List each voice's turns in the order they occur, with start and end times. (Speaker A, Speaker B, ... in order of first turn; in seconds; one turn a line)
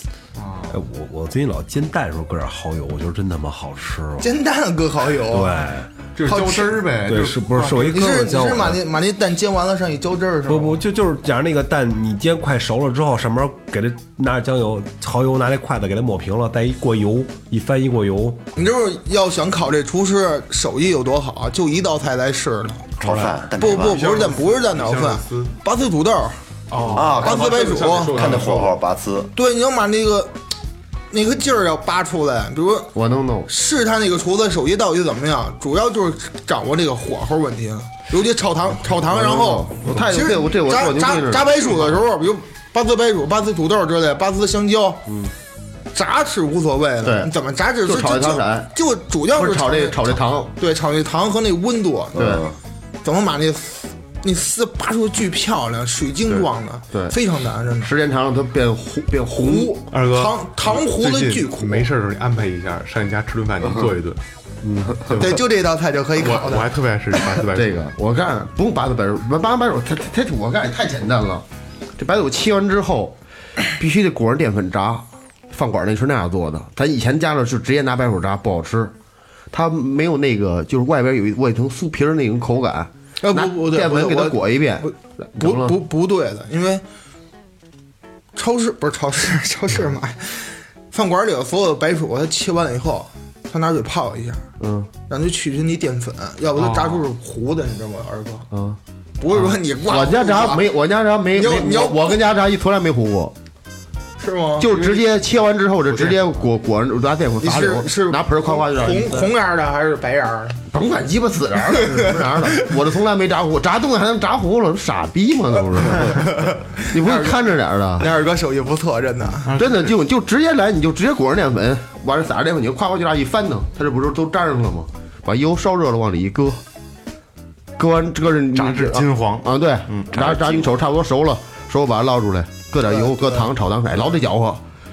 Speaker A: 0.3-0.8
Speaker B: 0.7-4.3
Speaker C: 4.2-5.6
Speaker B: 5.3-5.9
Speaker A: 6.2-8.1
Speaker C: 6.2-6.9
Speaker B: 7.0-8.8
Speaker C: 7.8-10.8
Speaker B: 10.5-18.4
Speaker C: 18.6-22.9
Speaker D: 23.0-24.0
Speaker A: 23.0-25.6
Speaker C: 23.6-26.4
Speaker A: 26.7-28.8
Speaker D: 26.9-29.3
Speaker C: 27.1-28.4
Speaker C: 29.4-30.4
Speaker C: 31.1-32.9
Speaker E: 32.9-33.5
Speaker C: 33.5-45.1
Speaker E: 39.1-41.7
Speaker E: 45.1-45.3
Speaker C: 45.9-52.4
Speaker E: 47.0-47.3
Speaker E: 47.8-48.7
Speaker E: 49.3-50.5
Speaker E: 52.1-52.5
Speaker D: 52.2-52.5
Speaker C: 53.0-57.9
Speaker E: 57.8-59.8
Speaker C: 59.3-61.9
Speaker A: 59.9-64.2
Speaker E: 64.6-65.2
Speaker A: 64.9-65.4
Speaker C: 65.1-66.8
Speaker A: 66.2-67.7
Speaker E: 67.5-71.5
Speaker E: 72.0-73.2
Speaker E: 73.7-78.9
Speaker E: 79.5-85.8
Speaker C: 83.2-86.8
Speaker C: 88.4-94.4
Speaker E: 94.6-94.9
Speaker C: 95.1-98.5
Speaker A: 96.6-97.1
Speaker E: 98.5-98.8
Speaker C: 99.2-100.7
Speaker E: 99.4-103.3
Speaker C: 101.3-102.2
Speaker C: 104.2-104.7
Speaker E: 104.6-109.3
Speaker A: 104.7-105.1
Speaker A: 105.9-106.4
Speaker C: 107.4-110.7
Speaker E: 110.7-116.3
Speaker C: 116.0-117.5
Speaker E: 116.8-118.1
Speaker C: 118.0-119.5
Speaker A: 119.5-119.9
Speaker E: 119.5-126.6
Speaker E: 127.8-134.6
Speaker A: 128.5-130.3
Speaker D: 130.3-130.7
Speaker C: 132.8-133.5